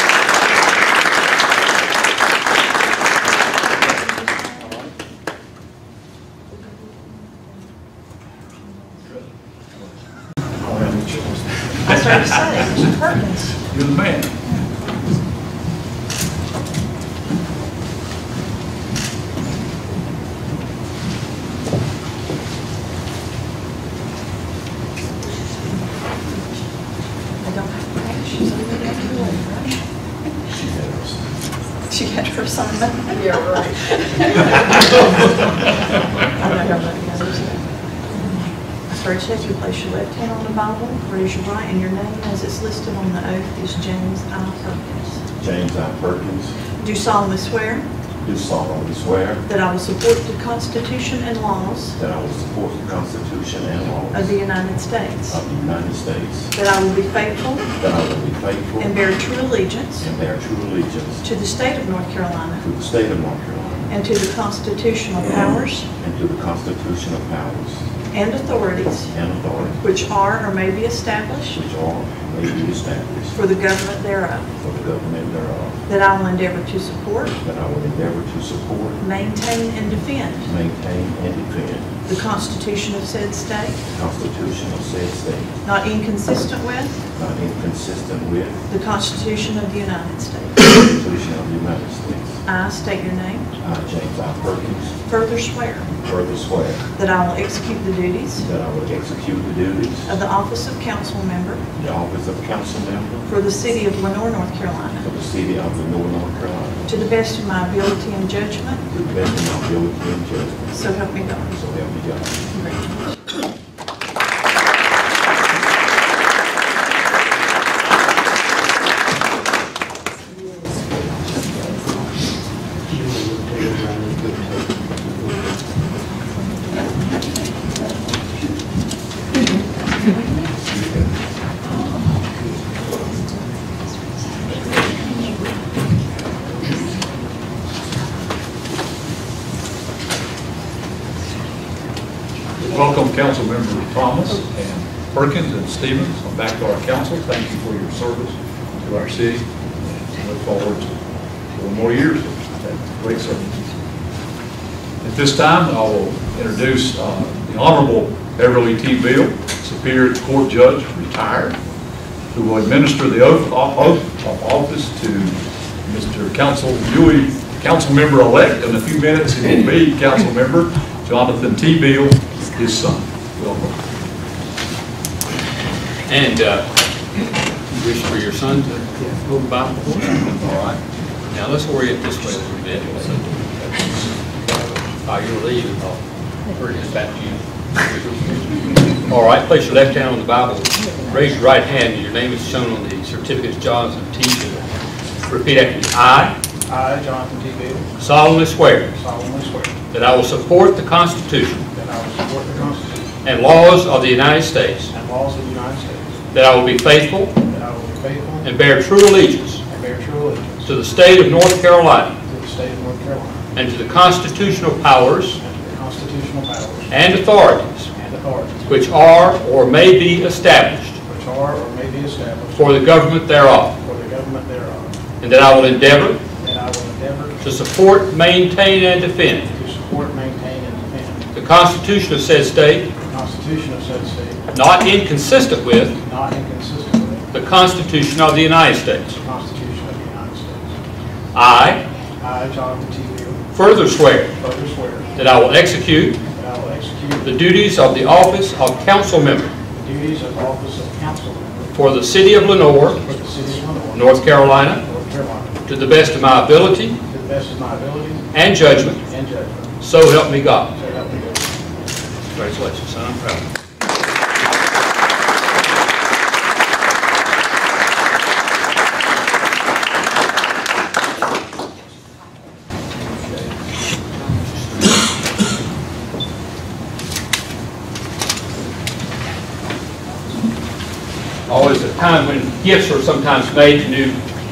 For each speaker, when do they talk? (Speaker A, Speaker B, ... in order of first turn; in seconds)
Speaker A: 3.8-4.7, 11.8-13.6, 27.4-29.8, 31.9-35.2, 36.4-37.6, 38.9-45.2, 46.8-47.8, 49.5-52.0, 54.1-55.4, 56.5-57.7, 58.8-60.1, 61.2-62.6, 63.9-65.9, 68.1-69.1, 69.8-71.6, 73.3-74.5, 75.9-77.3, 79.0-80.5, 82.0-83.8, 85.6-87.0, 88.7-90.7, 92.4-93.5, 95.1-95.9, 97.0-98.4, 100.0-101.6, 103.3-105.0, 106.9-108.8, 110.7-111.5, 112.5-113.1
Speaker B: 10.6-11.8, 123.1-124.5
Speaker C: 11.9-12.6, 13.7-14.3, 142.6-151.0, 151.5-153.7, 155.0-161.6, 162.3-173.8, 180.4-180.8
Speaker D: 30.5-31.2, 45.4-46.5, 48.2-49.4, 52.0-54.4, 55.3-56.5, 57.8-58.9, 60.0-61.2, 62.6-63.9, 66.0-67.8, 69.1-69.8, 71.5-73.3, 74.6-75.8, 77.4-79.0, 80.4-81.9, 83.9-85.5, 87.1-88.6, 90.7-92.4, 93.6-94.9, 96.0-96.8, 98.4-100.2, 101.8-103.3, 105.0-106.9, 108.9-112.4
Speaker E: 176.1-176.7, 177.7-180.3, 181.3-183.4, 185.0-194.7, 195.2-196.3, 197.9-198.9, 199.9-201.6, 203.2-204.9, 206.3-207.3, 208.4-209.6, 210.6-212.1, 213.5-215.4, 216.9-217.9, 218.7-221.0, 222.5-223.7, 225.2-226.2, 227.4-229.5, 231.3-232.9, 234.5-235.9, 237.3-239.2, 241.3-241.8, 243.5-244.3, 245.1-246.2, 247.2-249.5, 251.7-253.2, 253.9-254.8, 255.6-257.0, 258.3-259.0, 259.8-260.7, 262.3-263.4, 281.5-284.2
Speaker F: 196.7-197.9, 198.9-199.8, 201.7-203.1, 204.9-206.2, 207.4-208.5, 209.7-210.7, 212.2-213.4, 215.4-216.9, 217.9-218.8, 221.1-222.7, 223.8-224.9, 226.4-227.4, 229.5-231.3, 233.0-234.4, 236.0-237.3, 239.2-240.7, 242.2-243.4, 244.3-245.1, 246.2-247.4, 249.7-251.8, 253.0-255.6, 257.0-258.3, 259.0-259.7, 260.7-261.5